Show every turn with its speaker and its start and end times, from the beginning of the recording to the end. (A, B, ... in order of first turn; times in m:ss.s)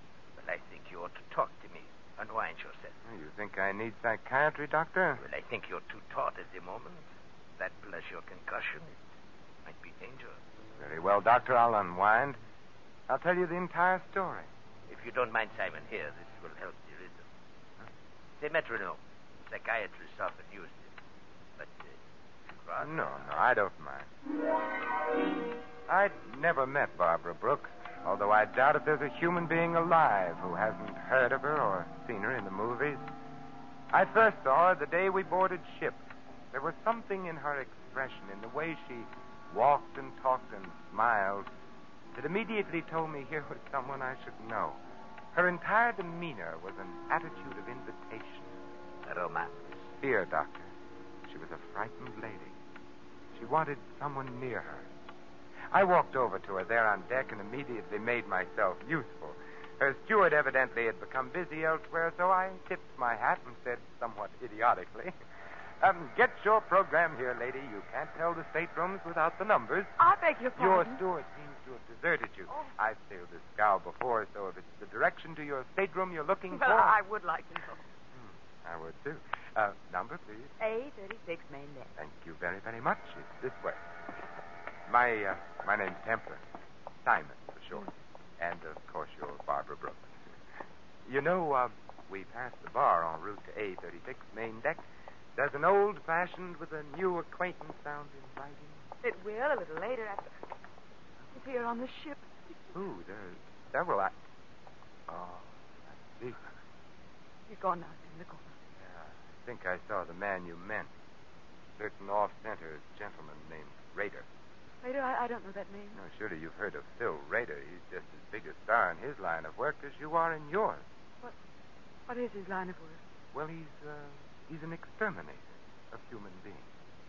0:00.4-0:03.0 A
0:03.0-0:05.2 B
0:05.2-0:07.0 A
0:07.6-0:09.0 A
0:09.6-0:10.4 A
0:10.8-0:12.4 B
0:13.1-0:14.5 B
0:14.9-0:17.3 A
0:18.4-0:20.9 A
0:21.6-0:23.3 A
0:22.8-0:24.1 B
0:25.9-0:33.0 B
0:33.9-0:41.5 B
0:42.1-0:44.8 B
0:45.3-0:48.6 B
0:49.0-0:49.8 A
0:49.9-0:50.7 B
0:51.2-0:52.6 B
0:53.3-0:54.9 B
0:55.7-1:05.1 B
1:05.8-1:09.9 B
1:10.0-1:11.0 C
1:10.6-1:17.0 B
1:16.5-1:17.8 C
1:18.1-1:20.5 B
1:20.6-1:21.9 C
1:22.0-1:23.8 B
1:24.9-1:26.4 B
1:27.0-1:30.1 B
1:31.0-1:34.8 B
1:35.4-1:38.8 B
1:39.0-1:40.3 C
1:41.3-1:42.3 C
1:42.7-1:44.2 B
1:45.1-1:46.4 B
1:47.5-1:48.5 C
1:48.9-1:50.9 B
1:51.8-1:54.3 B
1:54.8-1:56.0 C
1:55.9-2:00.8 B
2:02.1-2:03.0 C
2:03.3-2:06.7 B